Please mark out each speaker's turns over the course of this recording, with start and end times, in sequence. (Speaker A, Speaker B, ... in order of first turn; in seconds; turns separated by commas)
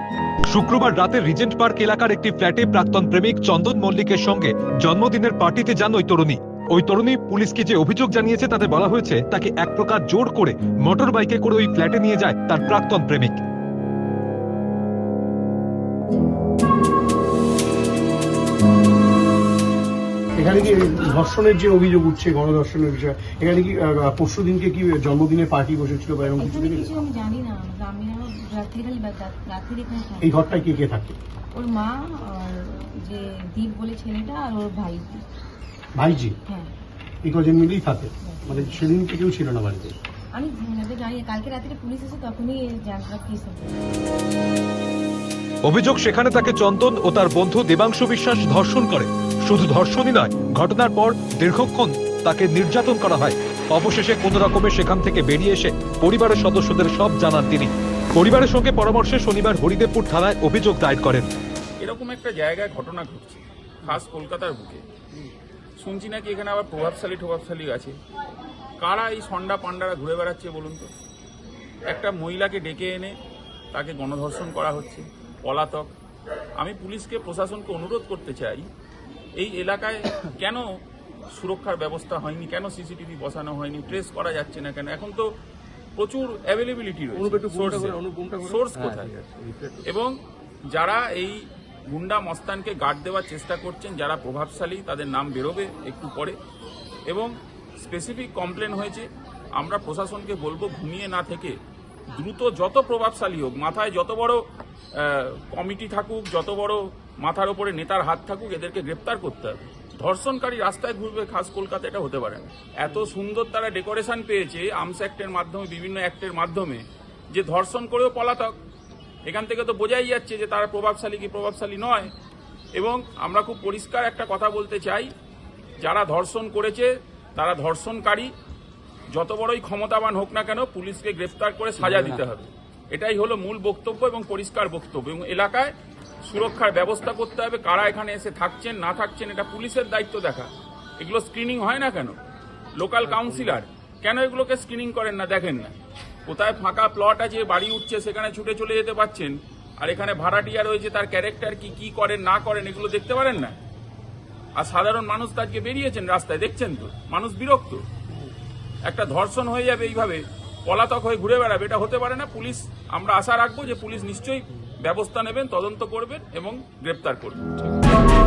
Speaker A: 0.5-13.4, Speaker B: 20.3-26.9, Speaker C: 26.4-30.6, Speaker B: 30.2-31.1, Speaker C: 31.5-35.2, Speaker B: 35.9-36.4, Speaker B: 37.2-40.0, Speaker C: 38.2-38.9, Speaker C: 40.3-43.8, Speaker A: 45.6-61.3, Speaker D: 61.8-64.8, Speaker D: 65.8-68.0, Speaker D: 68.8-70.9, Speaker D: 71.9-73.2, Speaker D: 73.7-75.9, Speaker D: 76.6-78.7, Speaker D: 79.4-80.7, Speaker D: 81.3-85.3, Speaker D: 86.0-89.1, Speaker B: 87.2-89.8, Speaker D: 89.8-90.2, Speaker D: 90.7-96.4, Speaker D: 97.1-101.6, Speaker D: 102.1-118.6, Speaker D: 119.2-122.1, Speaker D: 122.7-125.1, Speaker D: 125.8-128.3, Speaker D: 129.1-142.2, Speaker D: 142.8-153.6, Speaker D: 154.6-157.9, Speaker D: 158.8-167.6